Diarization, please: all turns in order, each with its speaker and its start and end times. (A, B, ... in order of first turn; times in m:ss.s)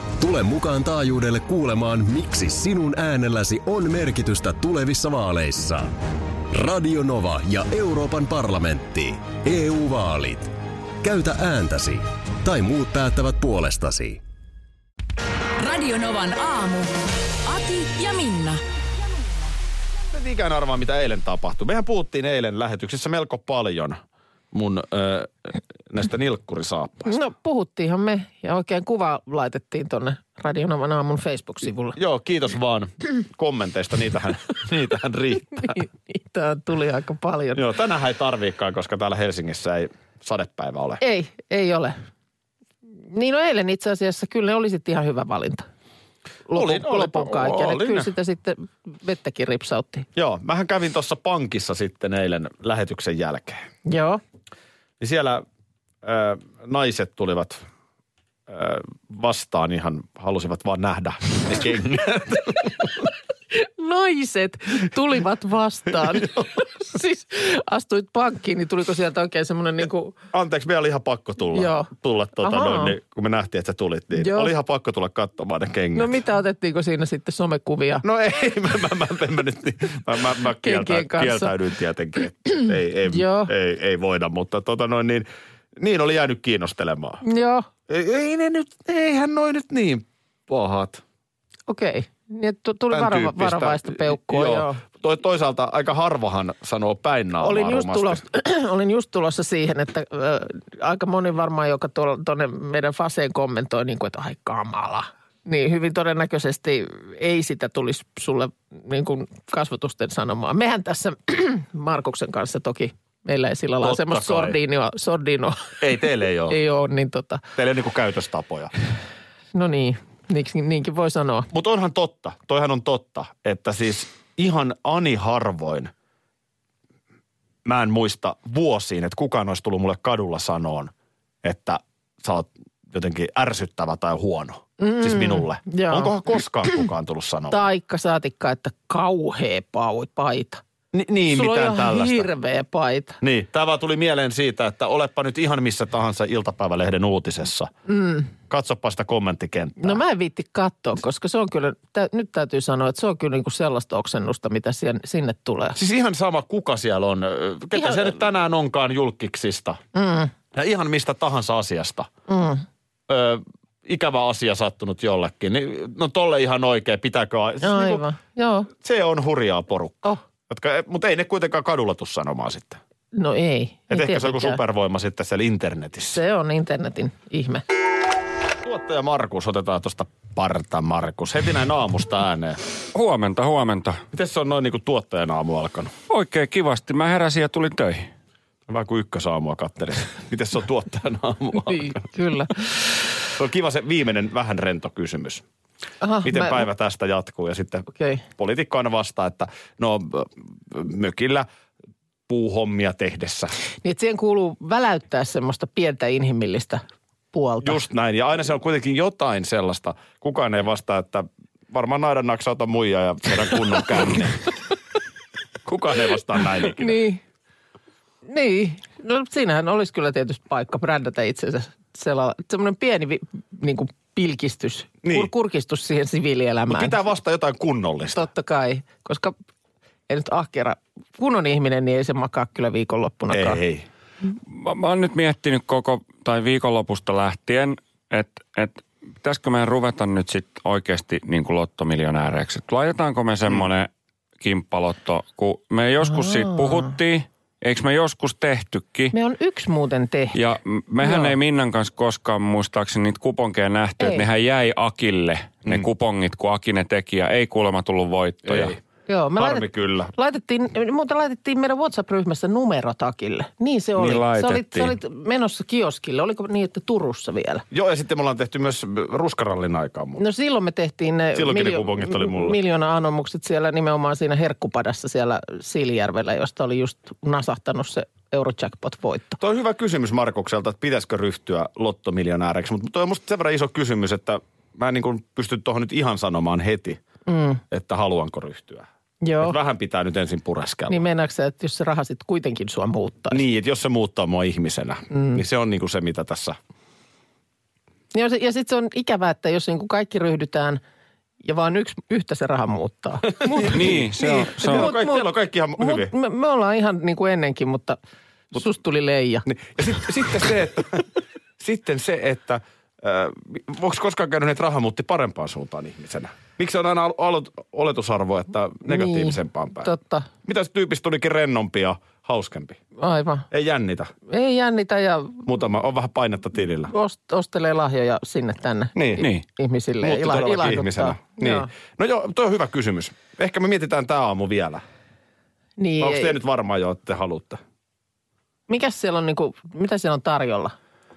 0:00.2-0:05.9 A
0:06.5-0:14.2 A
0:15.6-0:16.9 B
0:17.4-0:19.5 B
0:20.1-0:24.0 C
0:24.5-0:27.2 C
0:27.0-0:32.0 D
0:31.9-0:35.8 C
0:35.6-0:37.6 D
0:37.5-0:41.0 C
0:41.0-0:42.0 D
0:43.1-0:45.7 D
0:46.5-0:50.1 D
0:46.5-0:48.1 C
0:50.2-0:53.6 C
0:53.8-0:54.2 D
0:55.0-0:55.4 C
0:56.0-0:57.6 C
0:58.5-1:03.1 C
1:03.5-1:10.1 D
1:06.0-1:06.4 C
1:10.3-1:16.2 C
1:11.5-1:11.9 D
1:12.4-1:12.9 D
1:14.1-1:14.5 D
1:15.9-1:18.0 D
1:18.0-1:27.2 C
1:20.6-1:21.5 D
1:23.0-1:23.5 D
1:27.2-1:27.7 D
1:27.9-1:31.0 C
1:31.7-1:34.8 D
1:32.9-1:38.2 C
1:37.4-1:55.8 D
1:53.8-1:54.6 C
1:55.8-1:56.6 C
1:56.5-1:57.4 D
1:57.6-1:58.7 C
1:59.5-2:01.5 D
2:01.5-2:05.9 C
2:07.6-2:10.9 C
2:11.4-2:17.7 C
2:14.8-2:16.2 D
2:17.5-2:20.6 D
2:20.9-2:22.3 C
2:21.3-2:23.2 D
2:23.2-2:27.7 C
2:27.9-2:28.3 D
2:28.5-2:30.0 C
2:29.8-2:35.8 D
2:35.8-2:39.8 C
2:37.7-2:38.1 D
2:39.9-2:40.3 D
2:40.5-2:42.1 C
2:42.3-2:42.6 D
2:43.1-2:48.0 C
2:47.6-2:48.7 D
2:48.7-2:52.8 C
2:53.1-2:54.6 D
2:53.9-2:56.2 C
2:56.1-2:57.6 D
2:58.6-3:02.6 C
3:02.9-3:04.0 E
3:04.1-3:05.9 C
3:06.1-3:08.1 E
3:08.7-3:12.0 C
3:11.6-3:12.6 D
3:13.4-3:15.4 C
3:16.0-3:16.6 D
3:16.2-3:21.5 C
3:17.9-3:18.2 D
3:22.3-3:23.5 C
3:23.8-3:27.8 D
3:27.6-3:34.4 C
3:35.6-3:37.0 C
3:36.6-3:37.2 D
3:38.2-3:47.0 D
3:45.0-3:45.3 C
3:46.7-3:48.2 C
3:48.1-3:49.3 D
3:50.1-3:53.6 D
3:53.3-3:53.8 C
3:54.5-4:03.9 E
4:04.4-4:09.1 E
4:06.0-4:06.9 D
4:09.1-4:10.4 D
4:10.3-4:18.8 E
4:11.0-4:11.4 D
4:14.0-4:14.2 D
4:18.4-4:18.8 C
4:19.1-4:27.6 D
4:19.4-4:20.1 C
4:24.0-4:25.0 E
4:27.7-4:30.2 C
4:30.2-4:39.4 D
4:31.3-4:32.6 C
4:39.4-4:47.0 C
4:47.2-4:47.6 D
4:47.7-4:48.9 C
4:49.2-4:49.6 D
4:49.4-4:51.0 C
4:50.9-4:53.4 D
4:53.3-4:56.6 C
4:55.1-4:55.4 D
4:58.1-5:00.8 D
5:01.4-5:04.0 D
5:03.4-5:06.1 C
5:03.6-5:04.9 E
5:04.6-5:08.0 D
5:08.5-5:09.5 D
5:09.4-5:19.9 C
5:18.8-5:20.3 D
5:20.4-5:22.8 C
5:23.0-5:23.5 D
5:23.5-5:24.1 C
5:24.3-5:25.4 D
5:25.4-5:26.9 C
5:26.9-5:31.7 D
5:28.9-5:29.3 C
5:30.0-5:34.8 C
5:35.8-5:36.4 D
5:36.0-5:37.6 C
5:38.7-5:40.7 D